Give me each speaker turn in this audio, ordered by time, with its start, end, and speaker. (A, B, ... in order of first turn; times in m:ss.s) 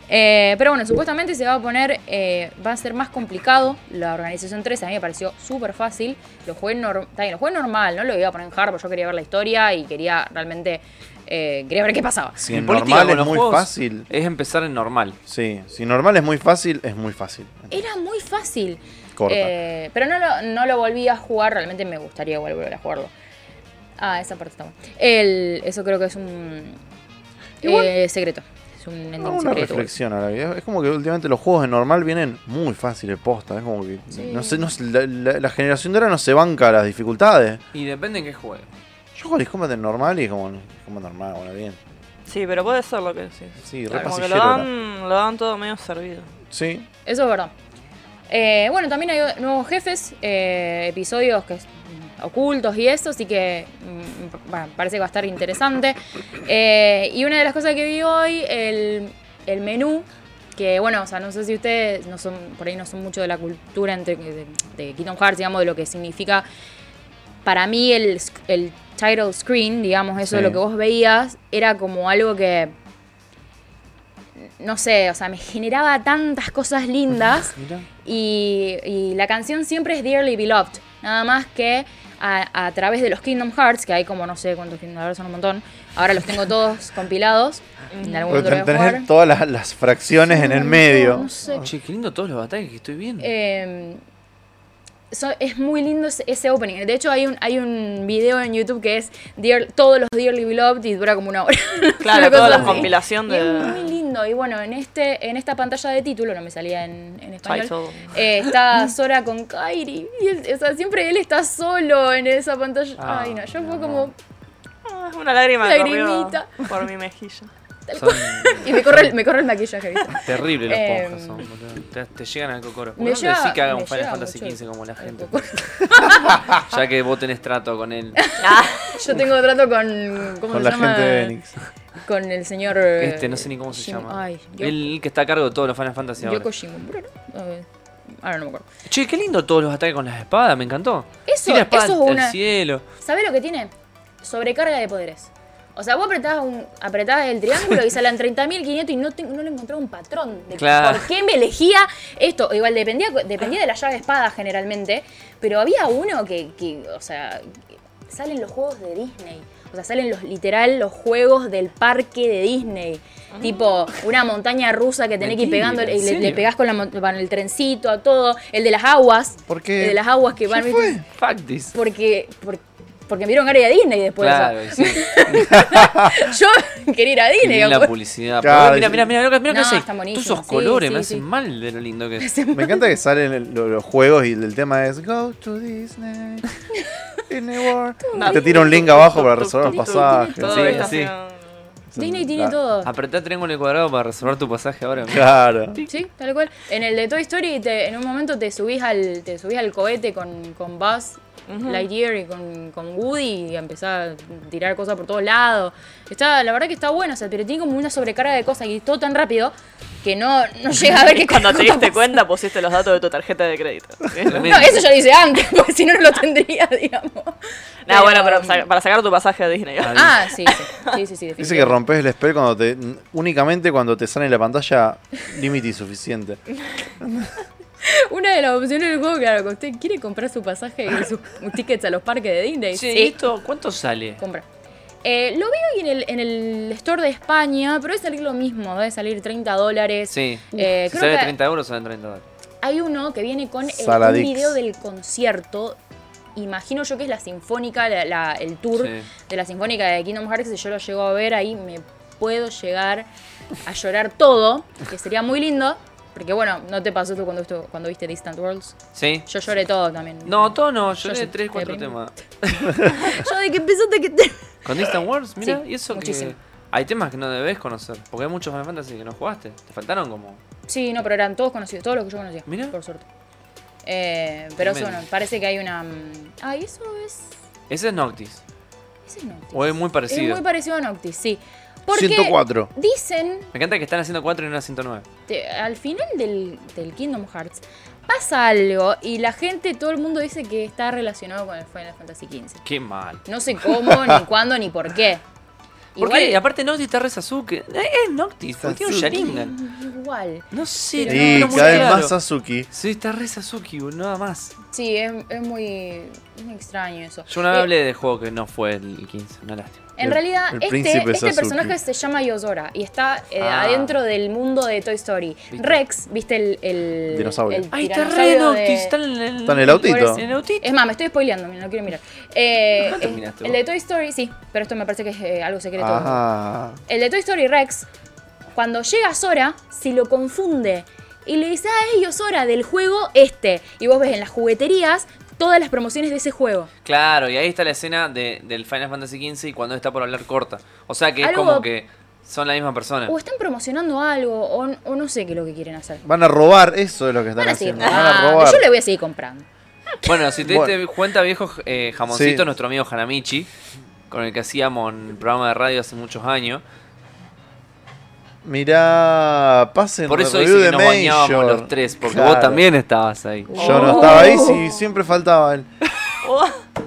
0:00.1-0:12.4 A
0:12.4-0:14.1 B
0:12.5-0:15.2 C
0:15.3-0:17.8 B
0:17.7-0:23.1 A
0:19.2-0:19.5 B
0:24.0-0:26.8 A
0:27.6-0:29.9 A
0:29.2-0:37.6 B
0:34.1-0:34.7 A
0:37.7-0:38.7 C
0:39.1-0:41.8 B
0:42.2-0:46.3 D
0:43.6-0:44.7 B
0:46.5-0:46.9 B
0:47.0-0:47.5 A
0:48.3-1:06.4 A
1:07.4-1:12.7 A
1:10.3-1:10.6 B
1:14.4-1:29.1 A
1:17.3-1:17.8 C
1:27.9-1:28.4 D
1:28.3-1:31.6 B
1:30.3-1:31.7 A
1:31.5-1:33.3 C
1:33.2-1:34.0 A
1:35.1-1:54.1 A
1:42.0-1:43.9 D
1:42.3-1:42.9 C
1:47.4-1:48.2 D
1:53.0-1:54.1 C
1:54.8-1:57.5 D
1:55.6-1:56.7 A
1:57.9-2:01.4 A
1:58.0-1:59.1 C
2:00.1-2:05.8 C
2:03.0-2:06.4 A
2:06.4-2:08.2 C
2:08.2-2:11.3 A
2:08.4-2:09.1 D
2:10.5-2:11.5 B
2:12.0-2:14.7 A
2:13.0-2:16.5 C
2:16.2-2:18.6 A
2:18.9-2:22.8 C
2:21.3-2:22.4 A
2:23.0-2:37.6 A
2:30.6-2:31.1 C
2:38.1-2:51.0 A
2:43.3-2:43.6 D
2:45.2-2:46.4 C
2:49.5-2:51.0 B
2:51.1-2:51.7 C
2:51.7-2:57.9 A
2:54.2-2:55.5 C
2:55.6-2:56.2 B
2:57.4-3:02.3 C
2:58.4-2:59.1 B
2:59.5-3:01.2 A
3:02.2-3:02.9 A
3:02.5-3:06.4 B
3:07.3-3:10.9 B
3:08.0-3:08.9 A
3:08.1-3:11.5 D
3:09.6-3:10.9 A
3:10.4-3:11.1 C
3:11.9-3:12.6 B
3:12.0-3:12.9 A
3:12.8-3:15.8 C
3:15.1-3:15.8 B
3:15.9-3:32.2 A
3:21.5-3:21.8 D
3:31.0-3:34.7 D
3:34.2-3:34.9 C
3:34.4-3:38.6 A
3:37.8-3:41.0 D
3:39.8-3:40.1 C
3:39.9-3:41.8 A
3:41.4-3:46.4 B
3:47.0-3:47.4 B
3:47.8-3:53.2 A
3:52.7-3:54.2 C
3:54.2-3:54.4 A
3:55.0-4:01.3 A
4:00.1-4:02.2 C
4:02.6-4:05.8 A
4:03.6-4:04.6 B
4:06.3-4:13.1 A
4:08.8-4:09.1 C
4:13.6-4:22.0 A
4:18.9-4:19.3 C
4:20.2-4:22.8 C
4:22.7-4:26.3 A
4:24.6-4:30.4 C
4:30.7-4:33.1 A
4:32.5-4:32.7 C
4:33.8-4:37.3 A
4:34.6-4:35.0 C
4:37.7-4:38.4 C
4:39.0-4:43.5 A
4:39.5-4:40.4 C
4:41.9-4:42.7 B
4:43.5-4:45.0 C
4:45.3-4:52.6 A
4:52.6-4:53.2 C
4:53.2-4:55.2 A
4:53.8-4:54.2 B
4:56.0-4:56.4 A
4:56.0-4:59.5 C
4:58.6-4:59.3 B
4:59.1-5:02.0 A
5:00.5-5:02.1 C
5:01.0-5:02.7 B
5:02.7-5:04.5 C
5:04.7-5:07.7 A
5:07.3-5:09.8 C
5:10.0-5:18.9 A
5:10.0-5:11.8 B
5:13.4-5:14.0 C
5:15.5-5:15.8 C
5:17.1-5:17.7 B
5:17.7-5:20.7 C
5:19.4-5:20.2 B
5:19.6-5:26.2 A
5:22.8-5:23.6 C
5:25.8-5:26.8 B
5:26.9-5:27.9 A
5:28.5-5:36.7 A
5:36.8-5:43.1 C
5:41.2-5:41.7 A
5:43.1-5:46.0 A
5:46.0-5:48.7 B
5:47.4-5:49.4 A
5:47.8-5:48.1 D
5:50.0-5:53.5 C
5:50.4-5:50.8 B
5:52.1-5:52.4 B
5:54.1-5:56.6 C
5:58.4-6:02.6 B
6:00.1-6:04.0 C
6:03.5-6:04.6 A
6:03.6-6:05.7 B
6:03.6-6:04.8 D
6:06.2-6:06.6 D